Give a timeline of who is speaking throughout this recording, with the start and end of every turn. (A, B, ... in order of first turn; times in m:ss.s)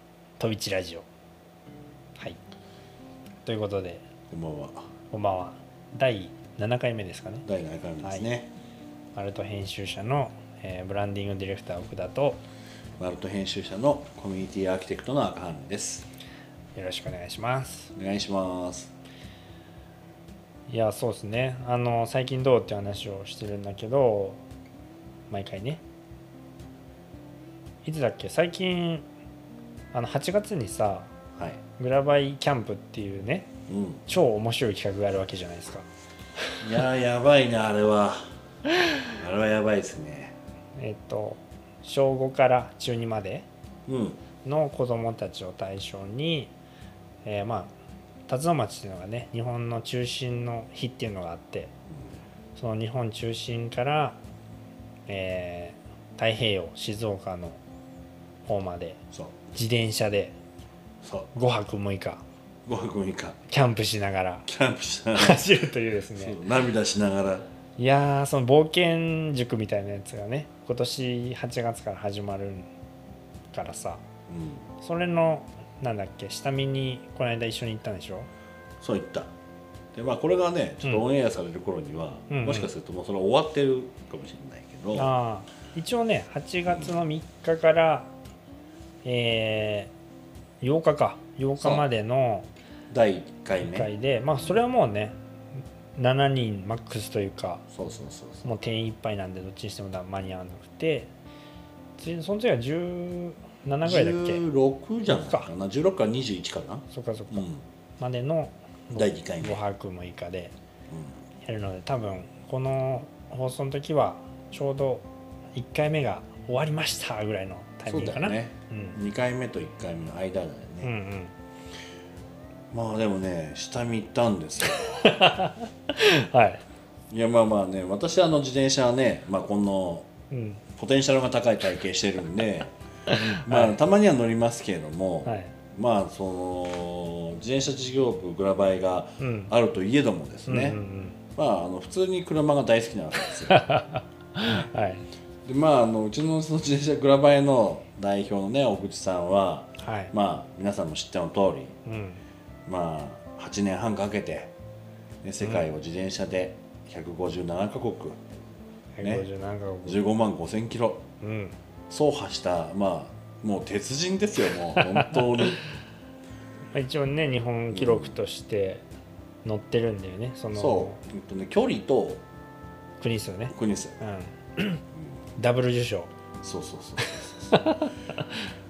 0:00.4-0:01.0 A
0:03.4-0:04.0 A
0:04.3-0:04.8 B
0:05.1-0:07.4 A
0:07.4-0:08.5 B
0:09.1-0:12.4 A
0:13.0-0:16.1 B
0:16.8-0:17.9 A
0:18.0-0:18.9 B
0:20.7-0:24.4 A
0:25.3-0:25.8 A
0:27.8-0:29.0 A
0:29.9-0:31.1 A
0:31.4-0:31.6 B
0:31.8-0:33.5 A
0:33.7-0:34.0 B
0:34.1-0:35.9 A
0:36.6-0:38.3 B
0:39.1-0:40.3 B
0:40.8-0:43.5 A
0:43.9-0:44.2 B
0:44.4-0:46.5 A
0:47.2-0:47.7 A
0:48.3-0:51.7 A
0:51.9-0:52.2 B
0:52.6-0:54.2 A
0:55.1-0:57.6 A
0:58.4-0:59.0 A
0:59.5-1:00.4 A
1:01.0-1:01.3 B
1:01.3-1:02.2 A
1:02.6-1:03.4 B
1:03.5-1:04.5 A
1:04.4-1:05.5 B
1:05.1-1:06.4 A
1:06.1-1:07.5 B
1:07.8-1:12.7 A
1:13.5-1:14.0 A
1:14.3-1:14.7 B
1:14.8-1:18.3 A
1:18.8-1:19.3 B
1:19.9-1:25.1 B
1:22.3-1:22.7 A
1:24.9-1:28.1 A
1:26.7-1:27.0 B
1:29.0-1:29.9 A
1:30.6-1:32.5 A
1:31.6-1:31.8 B
1:32.9-1:34.6 B
1:33.6-1:35.2 A
1:36.0-1:37.6 A
1:37.7-1:38.5 B
1:38.4-1:41.1 A
1:42.0-1:44.4 A
1:43.8-1:47.6 B
1:45.1-1:45.5 A
1:46.9-1:50.5 A
1:48.9-1:49.6 B
1:50.9-1:51.2 B
1:51.4-1:55.0 A
1:55.5-1:59.0 A
1:57.9-2:00.9 B
2:00.8-2:01.3 A
2:02.7-2:05.2 B
2:04.9-2:06.6 A
2:07.1-2:10.1 B
2:10.3-2:10.6 A
2:10.8-2:20.8 B
2:13.1-2:13.8 A
2:15.2-2:15.5 A
2:19.2-2:19.5 A
2:20.5-2:21.2 A
2:21.4-2:23.6 B
2:23.4-2:25.0 A
2:25.4-2:31.8 B
2:29.8-2:30.1 A
2:31.8-2:32.2 A
2:32.6-2:34.5 B
2:35.2-2:38.2 B
2:39.0-2:40.0 A
2:39.0-2:39.3 B
2:39.8-2:41.0 B
2:41.2-2:41.6 A
2:41.9-2:45.6 B
2:44.8-2:45.6 A
2:46.7-2:48.8 A
2:47.7-2:48.1 B
2:49.4-2:51.0 A
2:50.5-2:52.2 B
2:53.0-2:54.8 A
2:53.5-2:54.0 B
2:55.4-2:56.1 A
2:56.4-2:57.3 B
2:57.0-2:58.4 A